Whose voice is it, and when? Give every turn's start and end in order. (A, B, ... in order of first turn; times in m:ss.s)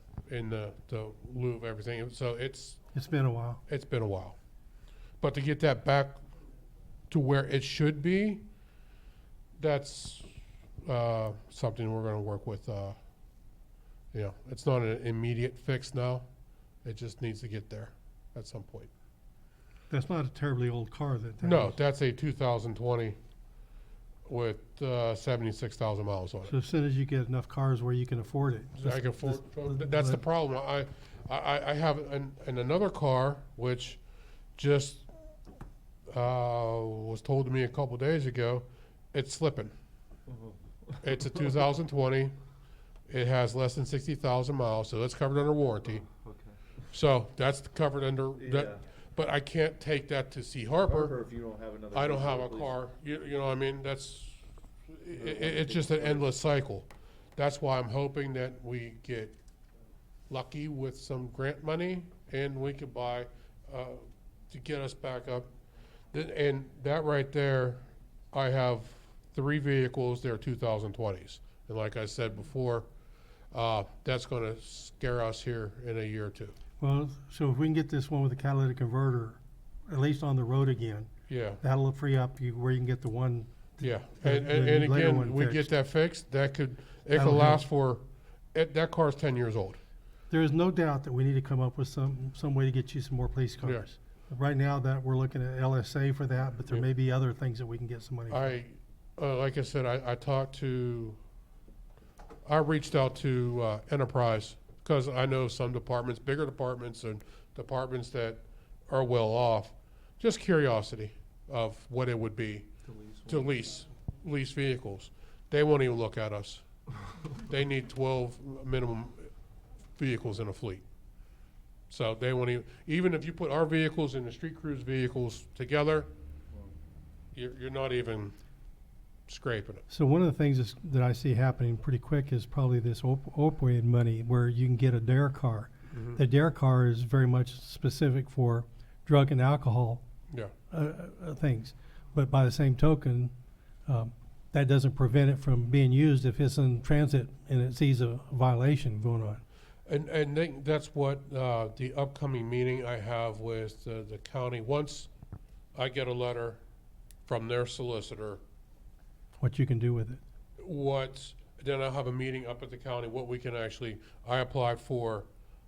0:00.3-0:02.8 A
0:02.9-0:03.6 B
0:03.7-0:04.4 A
0:05.2-0:06.2 A
0:07.1-0:08.4 A
0:09.6-0:10.3 A
0:10.8-0:13.0 A
0:14.1-0:16.3 A
0:16.8-0:18.9 A
0:19.9-0:21.8 B
0:21.4-0:23.2 A
0:24.3-0:26.5 A
0:26.5-0:30.2 B
0:28.8-0:34.0 A
0:34.6-0:35.1 A
0:36.1-0:39.7 A
0:40.3-0:41.2 C
0:41.0-0:42.4 A
0:43.1-0:46.1 A
0:45.8-0:46.6 C
0:46.9-0:51.2 A
0:48.4-0:48.8 C
0:50.8-0:52.7 C
0:51.9-0:59.4 A
0:55.1-0:56.3 C
1:00.3-1:05.5 A
1:06.1-1:12.9 A
1:13.5-1:16.6 A
1:16.8-1:21.1 B
1:21.3-1:21.6 A
1:21.6-1:25.7 B
1:23.8-1:29.8 A
1:27.1-1:27.6 B
1:30.3-1:38.6 B
1:38.3-1:41.2 A
1:42.5-1:52.7 A
1:52.8-1:53.6 C
1:53.3-1:56.6 A
1:57.4-1:59.3 A
2:00.0-2:00.8 A
2:01.9-2:06.1 A
2:07.4-2:08.4 A
2:09.3-2:09.8 A
2:09.9-2:20.0 B
2:15.9-2:16.2 A
2:20.7-2:23.3 B
2:23.9-2:29.4 B
2:29.9-2:35.1 A
2:35.8-2:36.6 A
2:37.3-2:38.4 A
2:39.4-2:40.2 B
2:40.6-2:45.3 A